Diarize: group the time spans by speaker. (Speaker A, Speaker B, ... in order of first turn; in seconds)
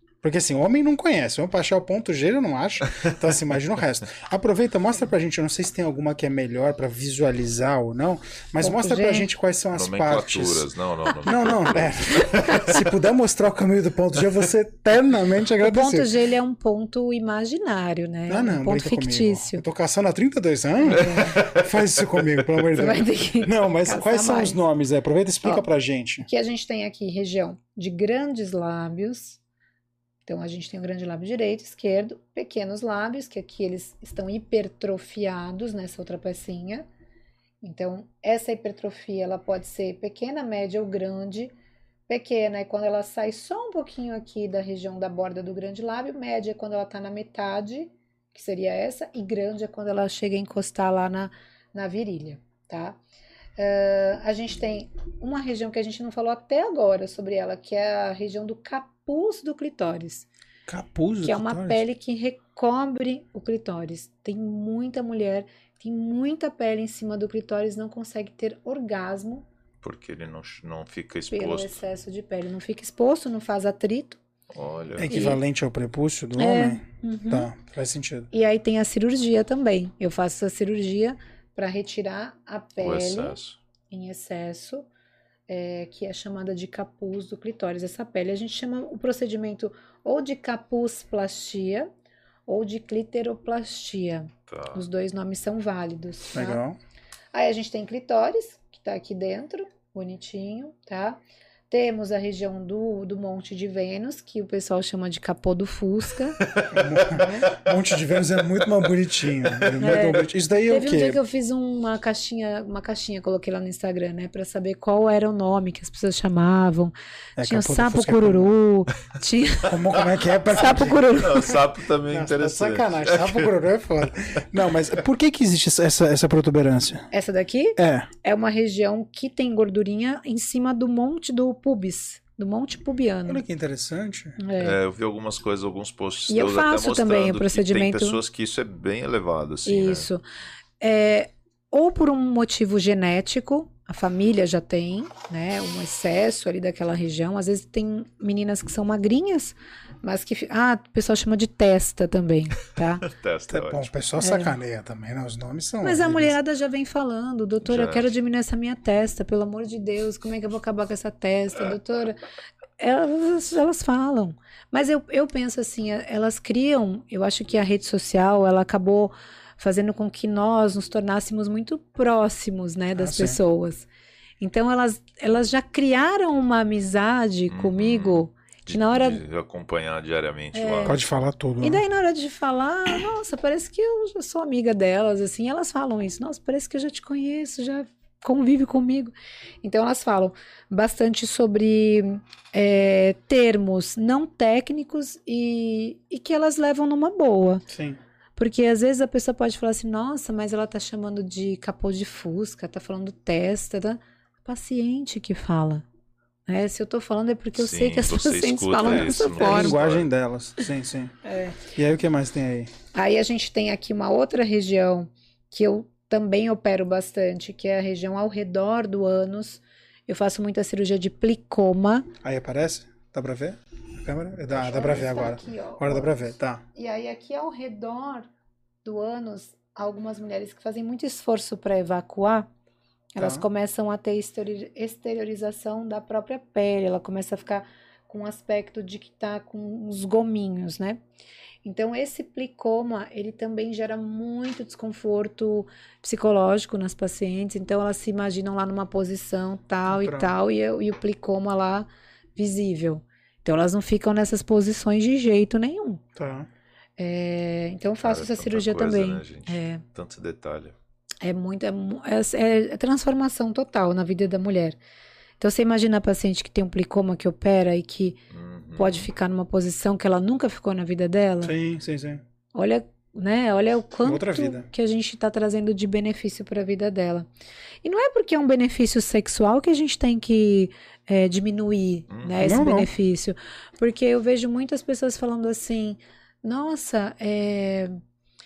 Speaker A: 0.2-10.7, 11.2-16.1, 18.3-26.3, 60.7-61.8, 75.0-78.3, 96.3-96.8, 106.7-111.2, 117.4-118.5, 119.7-121.0, 122.1-127.1, 127.8-128.1, 133.3-134.4, 153.5-156.3, 173.0-173.4, 180.9-181.8, 197.7-198.0, 209.4-211.2, 211.7-212.7, 222.2-226.6, 233.2-233.4, 249.9-250.3, 256.2-256.5, 271.4-272.2, 274.1-274.7, 282.4-282.9
Speaker B: 8.6-9.3, 15.6-19.6, 20.9-21.4, 22.8-24.6, 26.2-29.4, 30.2-36.9, 37.6-41.5, 42.1-53.0, 53.6-60.3, 61.2-69.5, 71.3-74.2, 75.1-75.4, 76.4-77.5, 78.3-83.4, 83.9-84.9, 85.5-91.9, 92.5-96.6, 97.3-106.4, 107.1-107.5, 109.8-119.8, 120.5-121.6, 127.1-133.4, 134.4-134.8, 136.3-138.2, 139.7-140.2, 140.8-153.0, 154.2-154.5, 155.8-162.2, 162.8-173.9, 174.4-179.2, 180.5-181.0, 181.6-197.7, 198.4-205.8, 206.5-209.8, 211.2-211.6, 212.9-222.1, 224.5-228.3, 228.8-232.5, 233.2-241.0, 241.6-256.0, 257.0-259.8, 261.2-264.8, 265.4-268.2, 268.8-271.5, 272.5-277.3, 277.8-288.0
Speaker C: 9.7-12.7, 20.9-21.7, 69.8-71.8, 74.5-75.2, 82.8-83.6, 94.5-94.9, 106.4-107.8, 109.3-110.0, 121.1-123.5, 134.6-140.1, 153.0-153.9, 157.7-158.1, 177.5-181.0, 207.6-210.1, 258.0-260.8, 268.3-269.1, 282.1-282.4